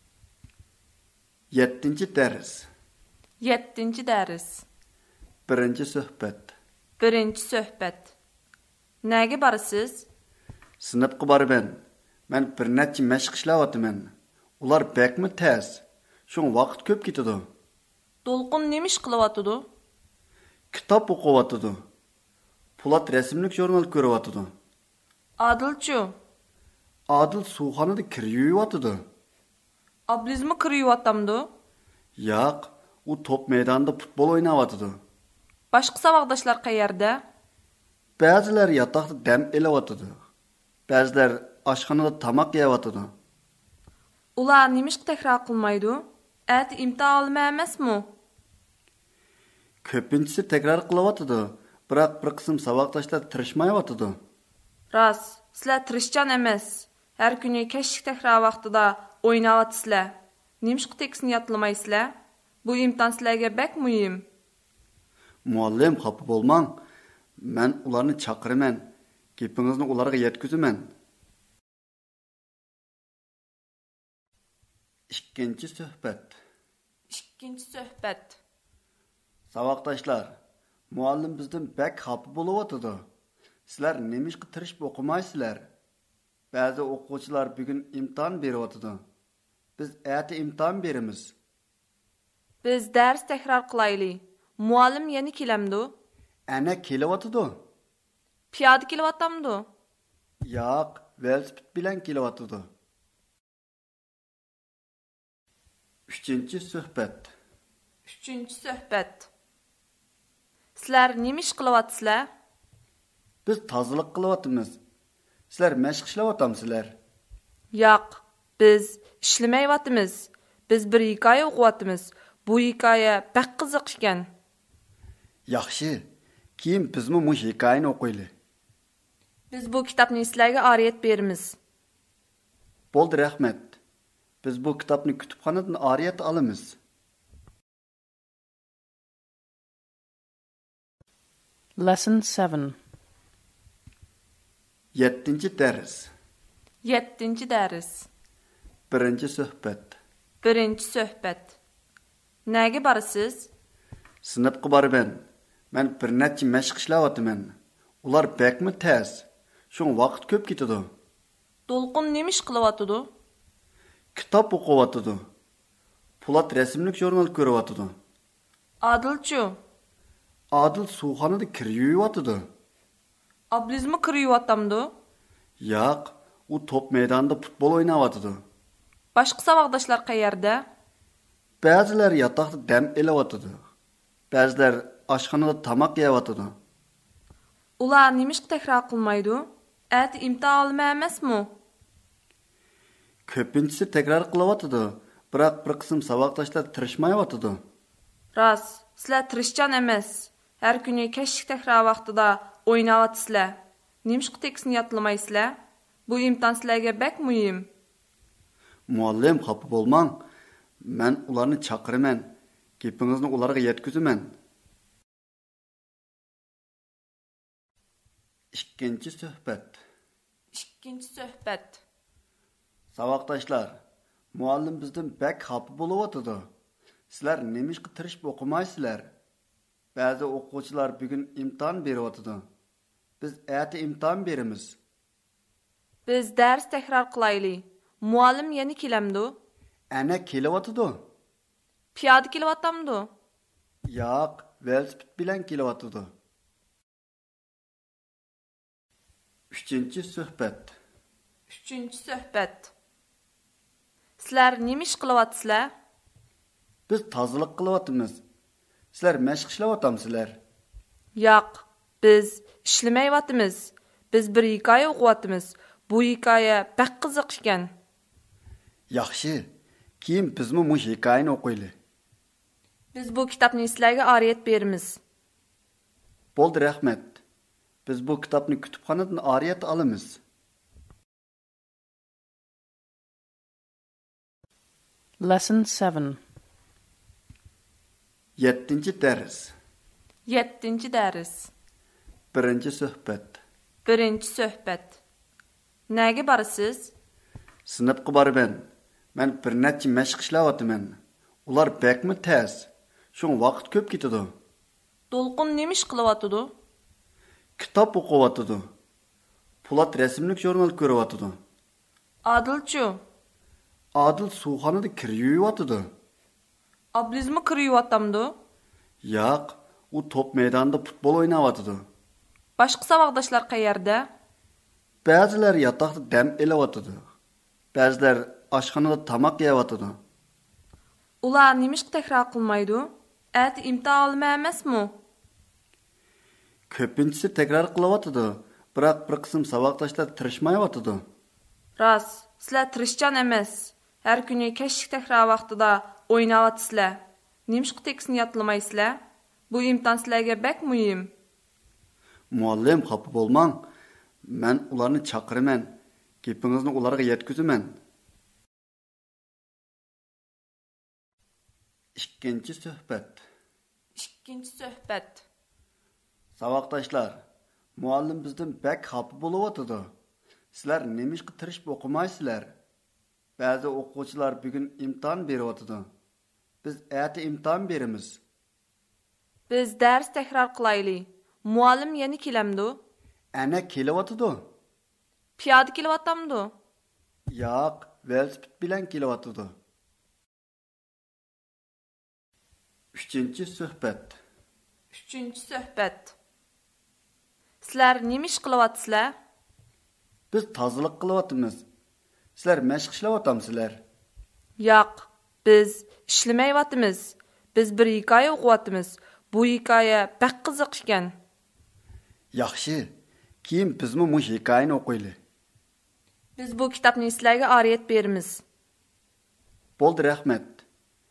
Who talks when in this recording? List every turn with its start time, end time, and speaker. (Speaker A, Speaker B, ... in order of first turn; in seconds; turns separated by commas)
Speaker A: 1.5-2.7, Speaker B: 3.4-4.6, Speaker A: 5.5-6.5, Speaker B: 7.0-8.1, Speaker B: 9.0-10.1, Speaker A: 10.8-17.5, Speaker B: 18.2-19.6, Speaker A: 20.7-21.8, Speaker A: 22.8-24.5, Speaker B: 25.4-26.1, Speaker A: 27.1-29.0, Speaker B: 30.1-31.5, Speaker A: 32.2-35.0, Speaker B: 35.7-37.2, Speaker A: 38.2-40.1, Speaker A: 40.9-43.1, Speaker B: 44.4-48.1, Speaker A: 49.8-54.2, Speaker B: 54.9-62.1, Speaker B: 62.6-64.2, Speaker A: 65.5-66.8, Speaker A: 67.4-70.9, Speaker A: 75.1-76.4, Speaker B: 77.1-78.4, Speaker A: 79.5-80.3, Speaker A: 80.9-83.0, Speaker A: 83.7-85.7, Speaker A: 86.5-89.0, Speaker A: 89.8-91.3, Speaker B: 92.6-95.9, Speaker A: 96.5-97.6, Speaker B: 98.5-99.7, Speaker A: 100.4-102.7, Speaker A: 106.1-107.3, Speaker B: 108.1-109.3, Speaker B: 110.8-112.3, Speaker A: 113.5-114.8, Speaker A: 115.5-117.0, Speaker B: 117.7-124.3, Speaker A: 125.5-126.1, Speaker A: 126.6-128.3, Speaker B: 129.5-131.6, Speaker A: 132.9-133.8, Speaker A: 134.4-136.8, Speaker C: 141.8-142.8, Speaker A: 144.9-146.1, Speaker B: 146.8-148.1, Speaker A: 148.9-150.0, Speaker B: 150.4-151.6, Speaker B: 152.5-153.5, Speaker A: 154.2-160.9, Speaker B: 161.7-163.1, Speaker A: 164.2-165.2, Speaker A: 166.2-167.9, Speaker B: 168.8-169.6, Speaker A: 170.5-172.4, Speaker B: 173.5-174.9, Speaker A: 175.6-178.4, Speaker B: 179.2-180.6, Speaker A: 181.6-183.6, Speaker A: 184.3-186.6, Speaker B: 187.8-191.5, Speaker A: 193.3-197.6, Speaker B: 198.3-205.6, Speaker B: 206.1-207.7, Speaker A: 208.9-210.2, Speaker A: 210.8-214.3, Speaker A: 218.5-219.8, Speaker B: 220.5-221.8, Speaker A: 222.9-223.8, Speaker A: 224.3-226.5, Speaker A: 227.1-229.1, Speaker A: 229.9-232.4, Speaker A: 233.2-234.8, Speaker B: 236.1-239.4, Speaker A: 239.9-241.1, Speaker B: 241.9-243.1, Speaker A: 243.9-246.1, Speaker A: 249.5-250.8, Speaker B: 251.5-252.7, Speaker B: 254.2-255.7, Speaker A: 256.9-258.2, Speaker A: 258.9-260.4, Speaker B: 261.2-267.7, Speaker A: 268.9-269.5, Speaker A: 270.0-271.7, Speaker B: 272.9-275.0, Speaker A: 276.4-277.2, Speaker A: 277.9-280.2, Speaker C: 285.2-286.2, Speaker A: 288.4-289.5, Speaker B: 290.3-291.5, Speaker A: 292.3-293.4, Speaker B: 293.9-295.0, Speaker B: 295.9-296.9, Speaker A: 297.7-304.3, Speaker B: 305.1-306.5, Speaker A: 307.6-308.7, Speaker A: 309.6-311.4, Speaker B: 312.2-313.0, Speaker A: 313.9-315.9, Speaker B: 316.9-318.3, Speaker A: 319.0-321.8, Speaker B: 322.6-324.1, Speaker A: 325.1-327.0, Speaker A: 327.7-330.0, Speaker B: 331.2-334.9, Speaker A: 336.7-341.0, Speaker B: 341.8-351.1, Speaker A: 352.3-353.7, Speaker A: 354.2-357.8, Speaker A: 362.0-363.2, Speaker B: 364.0-365.2, Speaker A: 366.4-367.2, Speaker A: 367.8-369.9, Speaker A: 370.5-372.5, Speaker A: 373.4-375.9, Speaker A: 376.6-378.2, Speaker B: 379.5-382.8, Speaker A: 383.3-384.5, Speaker B: 385.4-386.5, Speaker A: 387.3-389.5, Speaker A: 392.9-394.2, Speaker B: 394.9-396.1, Speaker B: 397.6-399.1, Speaker A: 400.3-401.6, Speaker A: 402.4-403.8, Speaker B: 404.6-411.1, Speaker A: 412.3-412.9, Speaker A: 413.4-415.2, Speaker B: 416.4-418.4, Speaker A: 419.8-420.6